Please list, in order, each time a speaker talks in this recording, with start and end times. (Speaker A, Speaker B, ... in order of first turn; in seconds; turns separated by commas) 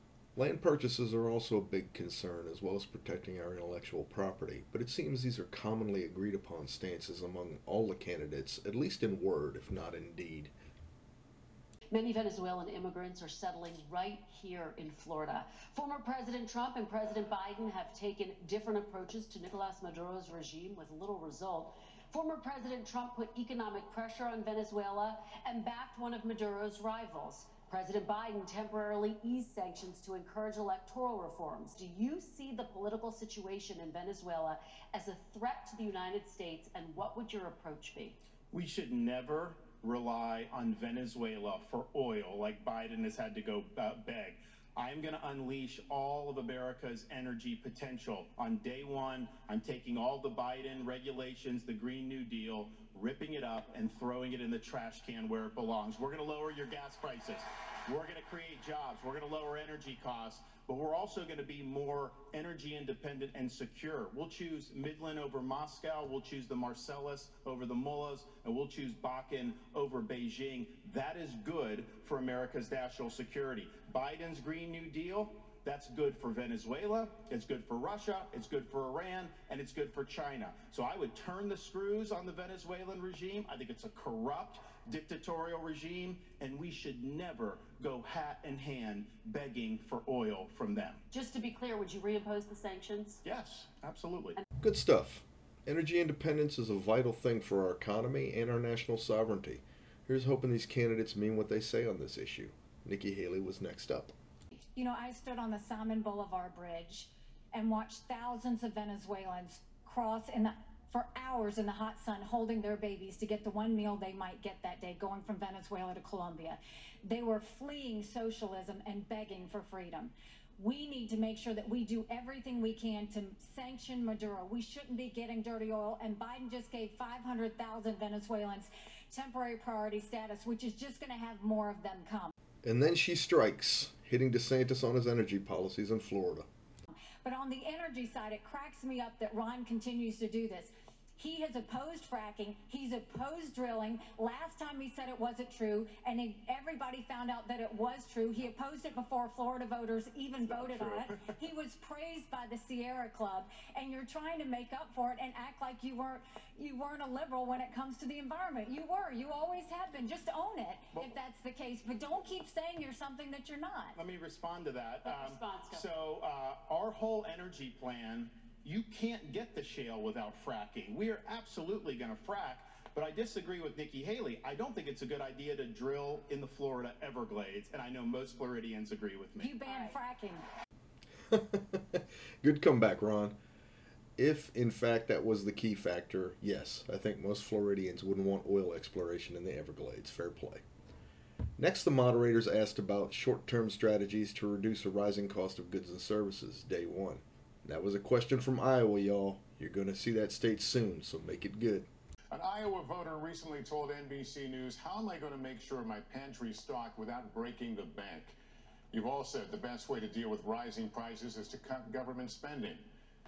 Speaker A: 0.3-10.5, Speaker B: 11.9-38.2, Speaker C: 38.5-91.0, Speaker B: 91.1-93.2, Speaker C: 93.2-94.4, Speaker A: 94.6-104.1, Speaker D: 104.8-132.3, Speaker A: 132.6-136.5, Speaker D: 137.2-164.0, Speaker C: 150.5-151.2, Speaker C: 163.9-179.6, Speaker B: 165.0-165.9, Speaker D: 179.4-180.4, Speaker A: 181.3-183.3, Speaker A: 184.2-190.6, Speaker A: 191.6-201.9, Speaker E: 202.3-208.3, Speaker E: 208.9-212.8